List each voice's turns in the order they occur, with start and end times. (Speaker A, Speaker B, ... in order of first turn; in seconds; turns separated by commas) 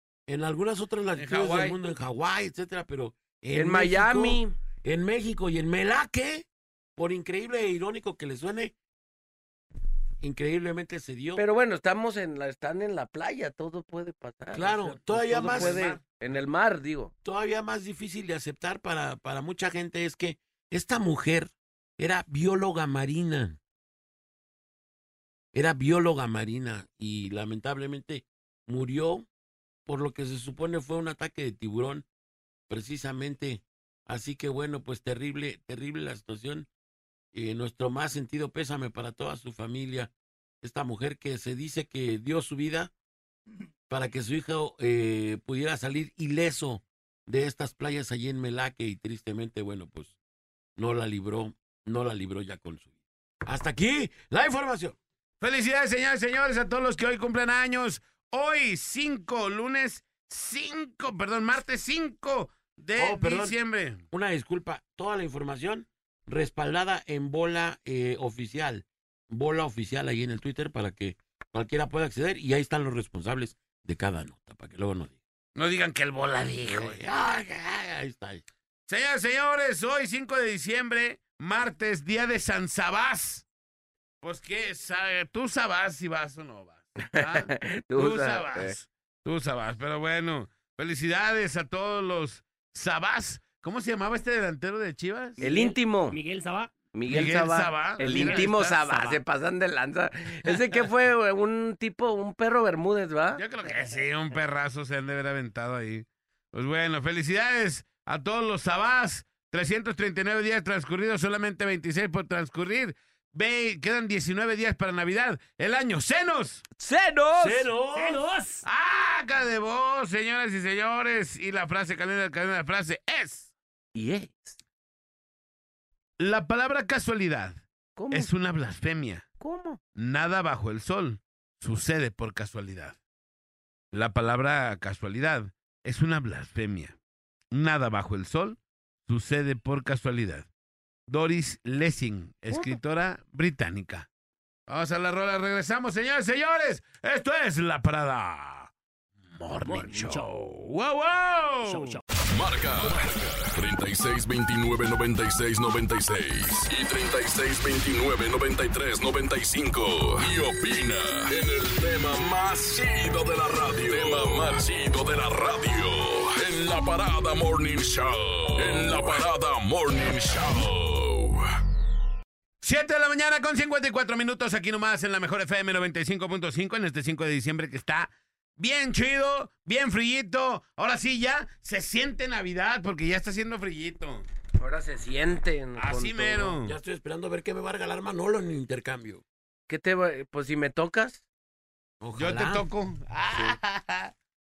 Speaker A: 0.3-8.7, Speaker B: 1.2-1.8, Speaker C: 3.5-4.5, Speaker A: 10.2-11.4, Speaker C: 11.4-17.1, Speaker A: 14.5-15.9, Speaker B: 15.3-16.0, Speaker A: 17.2-23.6, Speaker A: 25.5-29.3, Speaker A: 29.9-32.0, Speaker A: 32.7-36.7, Speaker A: 37.3-40.1, Speaker A: 40.6-42.9, Speaker A: 43.9-50.1, Speaker A: 50.8-52.9, Speaker A: 53.5-55.0, Speaker B: 55.4-64.0, Speaker A: 63.0-63.6, Speaker A: 64.1-75.2, Speaker B: 75.5-77.0, Speaker A: 76.7-78.5, Speaker B: 78.9-83.5, Speaker B: 84.2-95.4, Speaker C: 87.1-88.8, Speaker D: 95.4-96.7, Speaker C: 95.4-96.2, Speaker C: 96.9-103.4, Speaker B: 97.1-98.8, Speaker D: 98.0-99.2, Speaker B: 103.4-116.7, Speaker C: 116.8-117.7, Speaker A: 117.4-118.2, Speaker D: 118.0-118.7, Speaker B: 118.7-123.5, Speaker C: 124.0-124.6, Speaker B: 126.2-129.3, Speaker C: 128.0-128.3, Speaker C: 129.4-129.8, Speaker B: 130.0-133.0, Speaker B: 133.9-137.0, Speaker B: 137.5-140.5, Speaker B: 141.1-144.1, Speaker B: 144.7-148.7, Speaker B: 149.3-152.0, Speaker D: 149.7-150.3, Speaker D: 151.6-152.0, Speaker E: 152.3-171.4, Speaker B: 172.6-184.2, Speaker C: 184.6-186.6, Speaker B: 185.8-186.8, Speaker A: 186.6-189.2, Speaker C: 189.7-191.2, Speaker A: 192.0-192.7, Speaker B: 192.2-194.1